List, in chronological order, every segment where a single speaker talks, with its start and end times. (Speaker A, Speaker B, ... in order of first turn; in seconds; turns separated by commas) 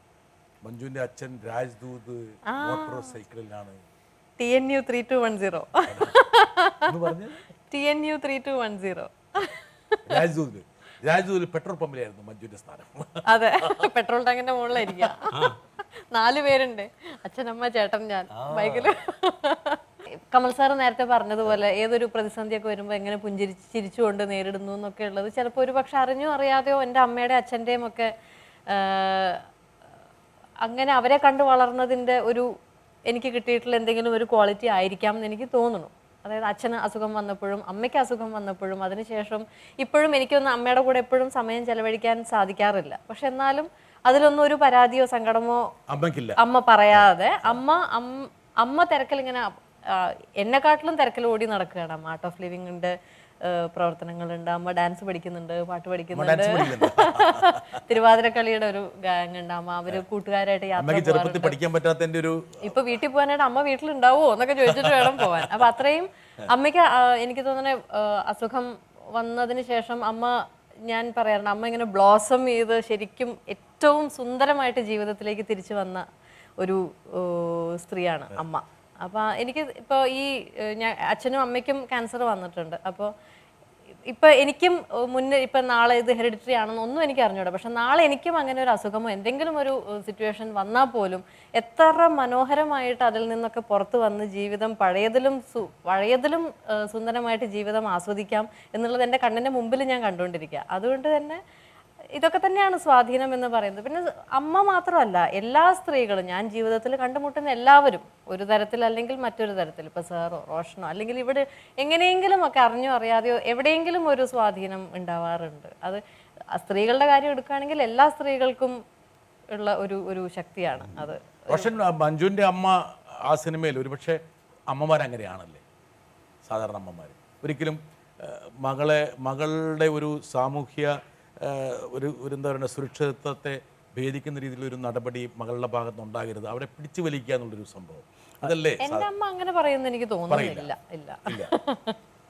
Speaker A: 0.6-3.8, Speaker B: 2.5-3.2, Speaker B: 4.4-6.8, Speaker A: 5.9-6.1, Speaker A: 6.9-7.4, Speaker B: 7.7-9.7, Speaker A: 10.1-13.7, Speaker B: 13.3-19.8, Speaker A: 15.0-15.5, Speaker A: 18.4-18.9, Speaker B: 20.3-28.1, Speaker B: 28.7-29.4, Speaker B: 30.6-32.5, Speaker B: 33.1-45.6, Speaker A: 45.9-46.4, Speaker B: 46.4-61.6, Speaker A: 46.9-47.6, Speaker A: 56.1-57.8, Speaker A: 60.8-62.9, Speaker B: 62.6-70.3, Speaker A: 64.7-65.6, Speaker B: 70.9-76.0, Speaker B: 76.6-83.1, Speaker B: 84.1-101.4, Speaker B: 102.2-116.0, Speaker B: 116.5-118.8, Speaker B: 119.5-121.7, Speaker A: 120.9-124.2, Speaker A: 124.7-125.6, Speaker A: 126.5-139.1, Speaker B: 138.8-142.0, Speaker A: 140.3-140.7